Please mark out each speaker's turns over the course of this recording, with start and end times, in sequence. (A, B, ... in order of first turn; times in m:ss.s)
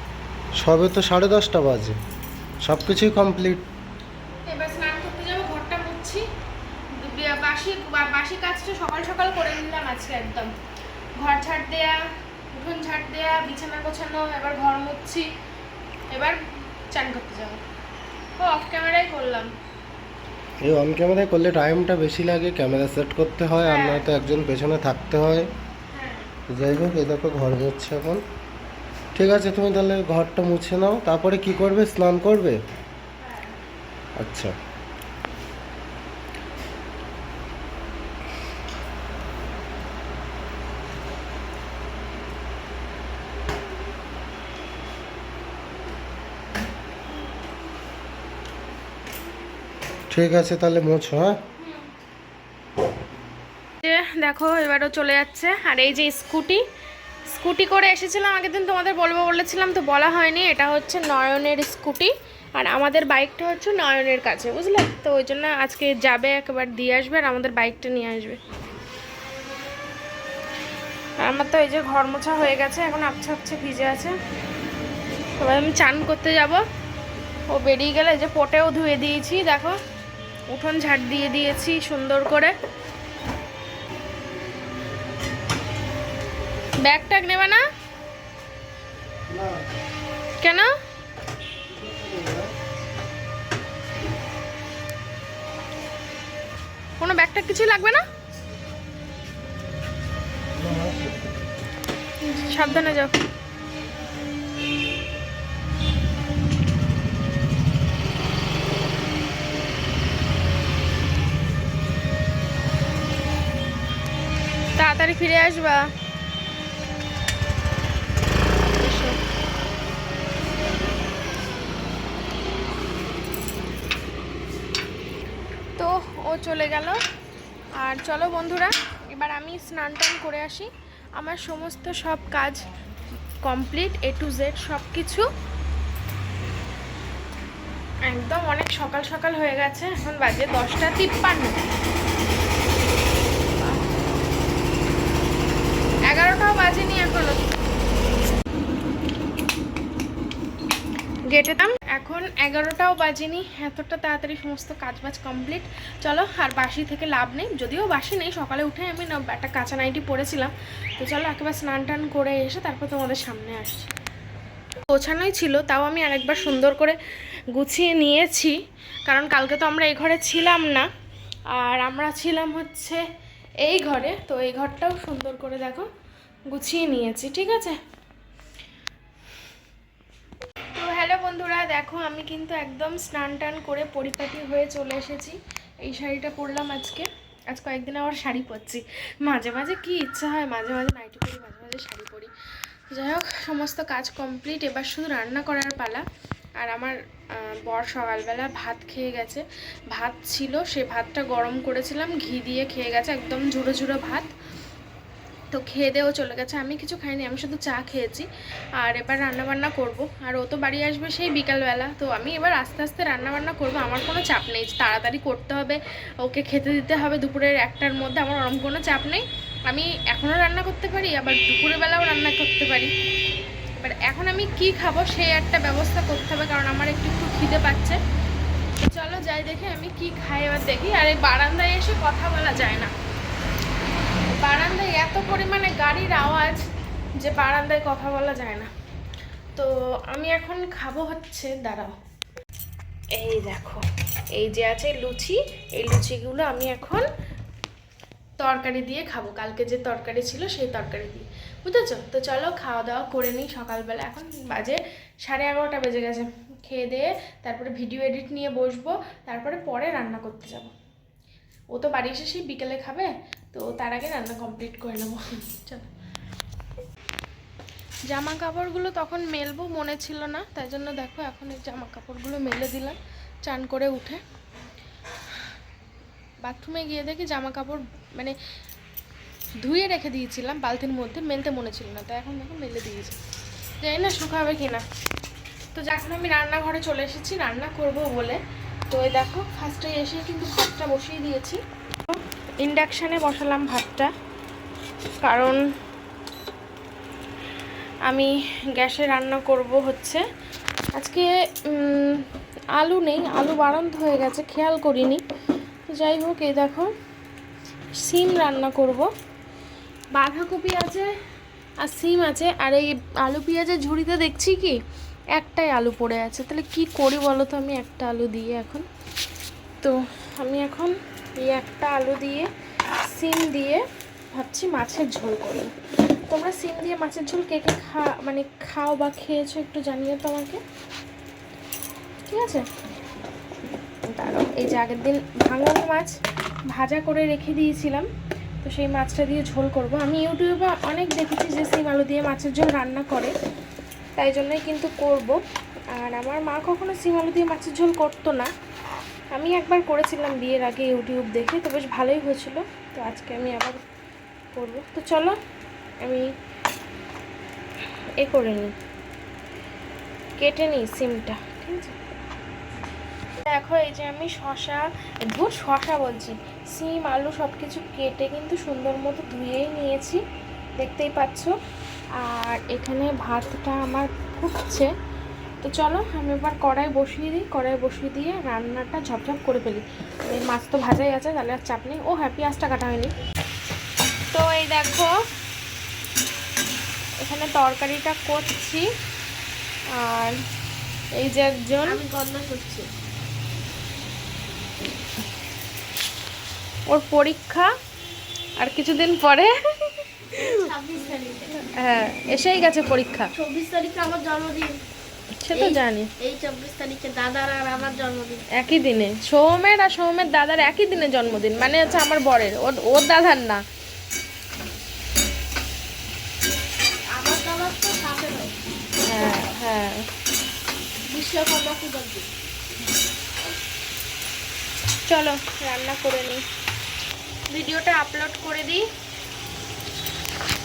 0:00.6-0:02.0 A
0:02.6-0:03.6 A
0:04.5-0:06.2 B
0:07.0-0:10.5 B
0:11.2-0:12.0 B
0:12.5-0:15.3 B
0:16.1-0:16.4 B
0:16.9-0:17.6 B
0:18.4-0:19.5 B
0:20.6-0:25.5 A
0:23.6-0:24.2 B
0:25.9-0:26.3 B
0:26.5-0:28.2 A
0:29.2-0:32.6 A
0:33.2-0:33.6 B
0:34.2-0:34.5 A
0:50.1-0:51.3 A
0:53.8-0:56.6 B
0:57.3-1:08.4 B
1:11.2-1:14.2 B
1:15.4-1:16.6 B
1:17.5-1:19.8 B
1:20.5-1:22.5 B
1:26.8-1:27.6 B
1:29.3-1:29.6 A
1:30.4-1:30.7 B
1:31.7-1:32.5 A
1:37.0-1:38.0 B
1:40.6-1:41.3 A
1:42.2-1:43.2 B
1:54.8-1:55.9 B
1:58.7-1:59.2 B
2:05.8-2:07.0 B
2:07.8-2:12.7 B
2:13.4-2:15.3 B
2:18.1-2:21.7 B
2:23.6-2:24.1 B
2:26.1-2:27.4 B
2:31.3-2:43.9 B
2:44.9-2:47.0 B
2:47.5-2:48.6 B
2:49.1-2:50.9 B
2:51.5-2:53.0 B
2:53.6-2:55.9 B
2:56.5-2:57.8 B
3:00.8-3:12.3 B
3:12.9-3:16.0 B
3:16.6-3:24.3 B
3:25.5-3:28.3 B
3:28.8-3:42.9 B
3:43.8-3:48.0 B
3:48.8-3:52.9 B
3:54.3-3:56.7 B
3:57.2-3:58.7 B
3:59.6-4:01.9 B
4:03.1-4:03.8 B
4:04.4-4:07.0 B
4:08.4-4:20.7 B
4:21.7-4:25.9 B
4:28.1-4:34.2 B
4:36.4-4:38.4 B
4:39.6-4:43.2 B
4:43.8-4:44.8 B
4:45.7-4:54.1 B
4:55.2-4:55.6 B
4:58.1-5:00.2 B
5:01.0-5:02.2 B
5:02.8-5:05.2 B
5:05.9-5:06.9 B
5:08.0-5:09.1 B
5:10.2-5:11.1 B
5:11.8-5:14.8 B
5:15.4-5:18.9 B
5:19.8-5:22.5 B
5:23.1-5:23.8 B
5:24.3-5:25.7 B
5:26.3-5:30.6 B
5:32.3-5:32.7 B
5:34.1-5:36.1 B
5:36.7-5:38.1 B
5:38.6-5:43.3 B
5:44.2-5:45.4 B
5:46.0-5:48.5 B
5:49.4-5:53.8 B
5:54.5-5:55.4 B
5:58.2-5:58.7 B
6:00.4-6:02.0 B
6:03.4-6:10.2 B
6:10.8-6:11.5 B
6:12.2-6:14.9 B
6:15.6-6:23.1 B
6:24.3-6:25.1 B
6:27.2-6:28.9 B
6:29.9-6:30.4 B
6:31.2-6:32.0 B
6:31.8-6:32.9 C
6:36.9-6:37.7 B
6:38.6-6:40.6 B
6:40.5-6:41.5 C
6:41.6-6:43.3 B
6:43.3-6:44.8 C
6:45.4-6:46.1 B
6:45.5-6:48.4 C
6:48.6-6:53.6 B
6:57.1-6:58.6 C
6:59.0-7:00.1 B
7:01.1-7:02.3 C
7:05.1-7:06.4 B
7:07.5-7:08.8 B